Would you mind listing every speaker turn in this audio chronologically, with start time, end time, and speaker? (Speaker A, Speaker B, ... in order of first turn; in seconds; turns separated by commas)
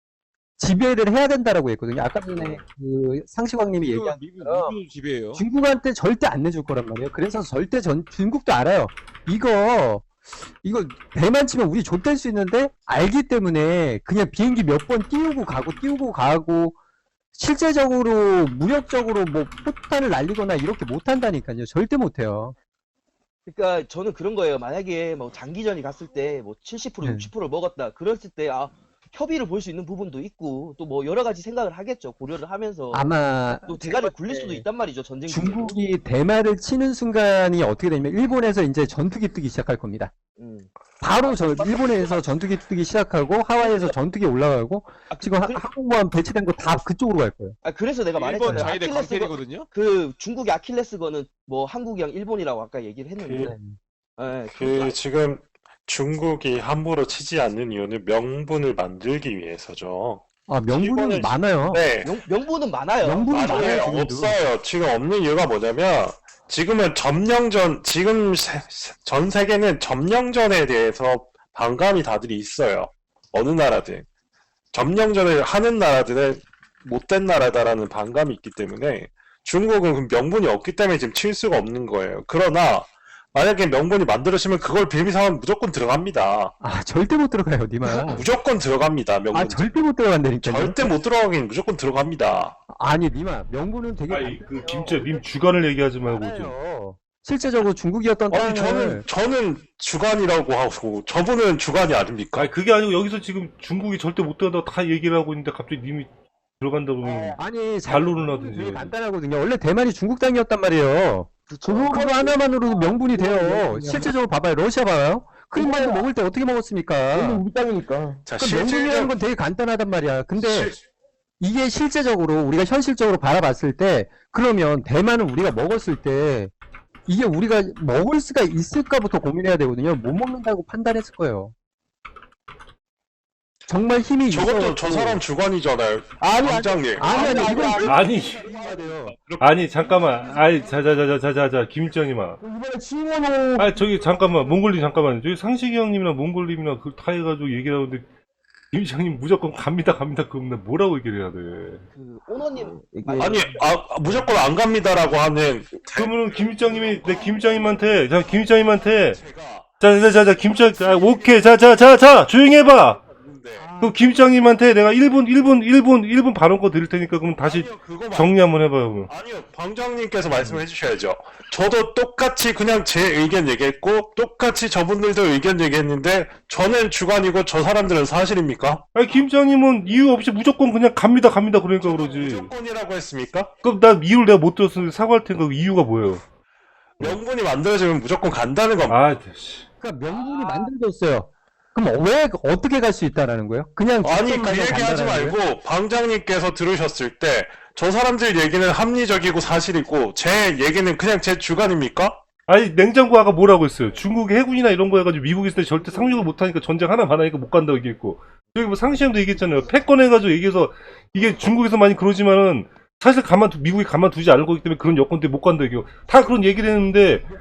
Speaker A: 0.6-4.8, Speaker B: 2.4-2.6, Speaker C: 3.8-5.5, Speaker A: 5.3-16.8, Speaker A: 17.4-22.6, Speaker B: 23.5-33.1, Speaker A: 27.0-27.3, Speaker A: 32.9-34.7, Speaker B: 33.7-35.8, Speaker A: 35.3-40.1, Speaker B: 40.4-40.7, Speaker A: 41.0-47.6, Speaker B: 41.2-42.3, Speaker B: 43.6-43.9, Speaker B: 45.1-45.7, Speaker B: 47.6-53.5, Speaker C: 48.1-49.7, Speaker A: 48.5-48.7, Speaker A: 53.4-53.8, Speaker B: 54.2-55.0, Speaker D: 54.5-62.2, Speaker A: 60.5-61.9, Speaker B: 62.0-64.0, Speaker A: 63.0-64.4, Speaker D: 63.3-74.1, Speaker D: 74.7-86.5, Speaker A: 86.6-88.3, Speaker D: 87.9-89.7, Speaker A: 89.3-90.9, Speaker D: 90.4-92.6, Speaker A: 92.7-95.2, Speaker E: 94.1-96.5, Speaker A: 96.0-99.1, Speaker D: 98.3-102.5, Speaker E: 102.3-109.0, Speaker A: 107.4-111.3, Speaker B: 111.5-112.0, Speaker F: 111.7-114.0, Speaker A: 111.9-117.4, Speaker F: 115.6-116.0, Speaker F: 117.2-118.2, Speaker D: 118.2-119.2, Speaker A: 118.4-120.8, Speaker D: 120.4-120.8, Speaker A: 121.4-126.5, Speaker A: 127.1-131.5, Speaker A: 133.7-135.2, Speaker D: 134.3-138.0, Speaker F: 136.3-137.8, Speaker A: 136.9-139.2, Speaker E: 137.8-138.5, Speaker D: 139.2-140.2, Speaker E: 139.4-142.4, Speaker F: 142.4-143.6, Speaker E: 143.6-148.1, Speaker E: 148.7-151.9, Speaker B: 151.9-153.9, Speaker F: 152.7-153.4, Speaker D: 153.2-159.8, Speaker E: 155.9-159.2, Speaker E: 159.8-163.0, Speaker D: 160.8-161.3, Speaker D: 163.0-163.8, Speaker E: 163.8-169.1, Speaker D: 167.4-168.4, Speaker D: 169.1-178.8, Speaker E: 178.9-182.5, Speaker D: 181.8-183.5, Speaker E: 183.6-186.2, Speaker D: 187.0-189.1, Speaker E: 188.9-189.7, Speaker A: 189.8-195.4, Speaker B: 190.2-190.7, Speaker D: 194.0-202.2, Speaker E: 202.5-217.3